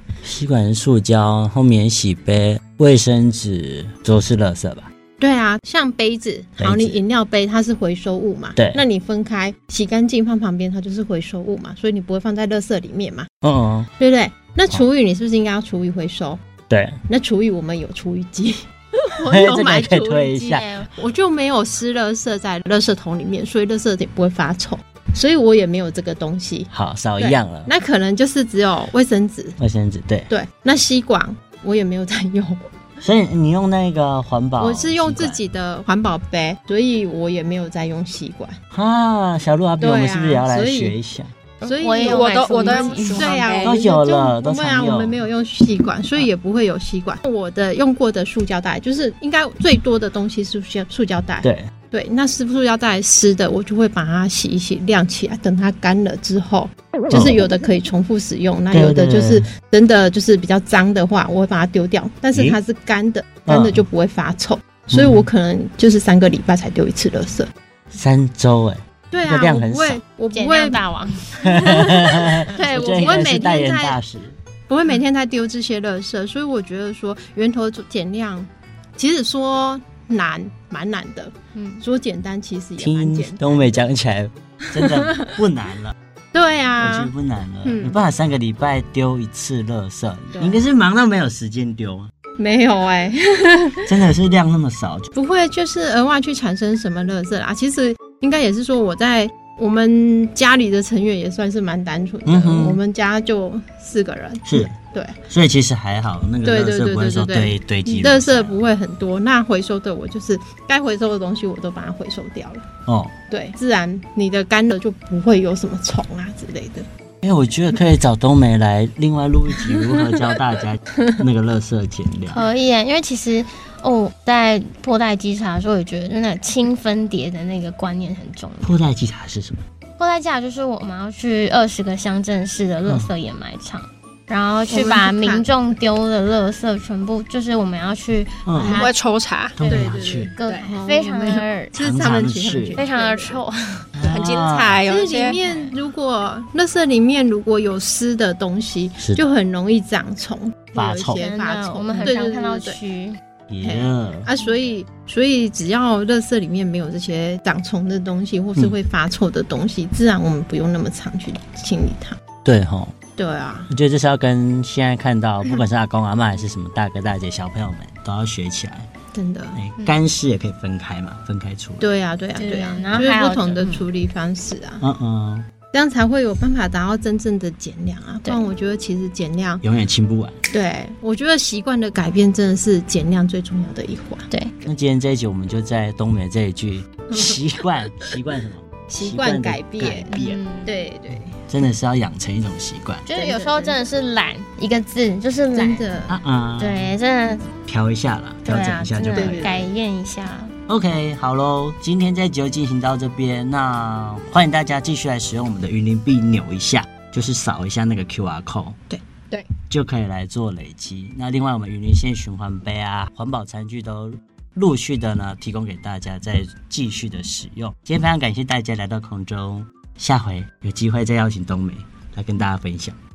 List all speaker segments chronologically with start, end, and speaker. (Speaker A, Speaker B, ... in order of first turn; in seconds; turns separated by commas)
Speaker A: 0.2-4.9, Speaker B: 5.2-13.3, Speaker A: 6.6-7.0, Speaker A: 8.6-8.8, Speaker A: 13.4-13.9, Speaker B: 14.0-16.4, Speaker A: 16.7-17.0, Speaker B: 17.1-18.6, Speaker B: 19.1-29.6, Speaker A: 19.3-20.7, Speaker C: 20.4-20.9, Speaker A: 26.7-27.7, Speaker A: 29.6-30.3, Speaker B: 30.3-32.7, Speaker A: 33.0-35.4, Speaker B: 34.6-38.6, Speaker A: 38.7-41.3, Speaker B: 39.8-40.9, Speaker C: 41.6-43.3, Speaker B: 41.6-67.5, Speaker D: 42.0-43.8, Speaker A: 43.6-45.2, Speaker A: 51.4-51.7, Speaker A: 57.1-57.4, Speaker A: 58.7-59.5, Speaker A: 63.5-63.8, Speaker A: 64.9-65.2, Speaker A: 67.9-70.0, Speaker B: 69.1-70.8, Speaker C: 70.3-71.4, Speaker A: 71.4-74.4, Speaker B: 71.5-74.0, Speaker C: 72.7-73.2, Speaker B: 74.7-83.8, Speaker C: 81.5-81.8, Speaker A: 82.8-85.9, Speaker B: 86.3-87.1, Speaker A: 86.8-92.1, Speaker B: 87.6-88.0, Speaker B: 90.3-90.6, Speaker B: 92.4-93.8, Speaker A: 93.8-95.1, Speaker B: 95.1-105.2, Speaker A: 102.2-102.8, Speaker A: 104.5-104.7, Speaker A: 105.3-108.6, Speaker B: 106.4-112.7, Speaker A: 112.9-113.1, Speaker B: 113.3-116.8, Speaker A: 117.2-122.5, Speaker C: 122.3-128.7, Speaker A: 128.6-129.6, Speaker C: 130.0-138.9, Speaker A: 132.8-133.1, Speaker B: 134.7-135.5, Speaker A: 138.4-138.8, Speaker D: 138.6-139.6, Speaker A: 139.6-140.3, Speaker C: 139.6-141.7, Speaker B: 139.7-143.4, Speaker A: 141.8-142.8, Speaker C: 142.7-143.9, Speaker A: 143.9-144.8, Speaker D: 144.0-145.3, Speaker B: 144.8-152.8, Speaker C: 145.4-145.8, Speaker A: 150.7-151.3, Speaker C: 151.1-153.2, Speaker A: 153.5-154.3, Speaker B: 153.6-162.2, Speaker A: 162.4-162.9, Speaker B: 163.2-163.7, Speaker A: 163.7-168.9, Speaker B: 169.1-169.6, Speaker A: 169.5-171.8, Speaker B: 171.8-174.8, Speaker C: 172.3-173.8, Speaker A: 174.8-175.5, Speaker B: 175.7-179.6, Speaker A: 179.6-180.4, Speaker B: 180.5-184.3, Speaker A: 184.6-190.4, Speaker B: 187.1-187.4, Speaker B: 188.9-190.1, Speaker C: 190.1-190.7, Speaker B: 190.7-191.3, Speaker A: 191.5-193.0, Speaker C: 193.1-195.9, Speaker B: 193.1-193.8, Speaker B: 195.5-196.1, Speaker A: 196.1-196.9, Speaker C: 196.6-197.5, Speaker A: 197.7-199.6, Speaker C: 198.4-200.5, Speaker B: 199.1-199.7, Speaker A: 200.7-208.8, Speaker A: 209.7-223.0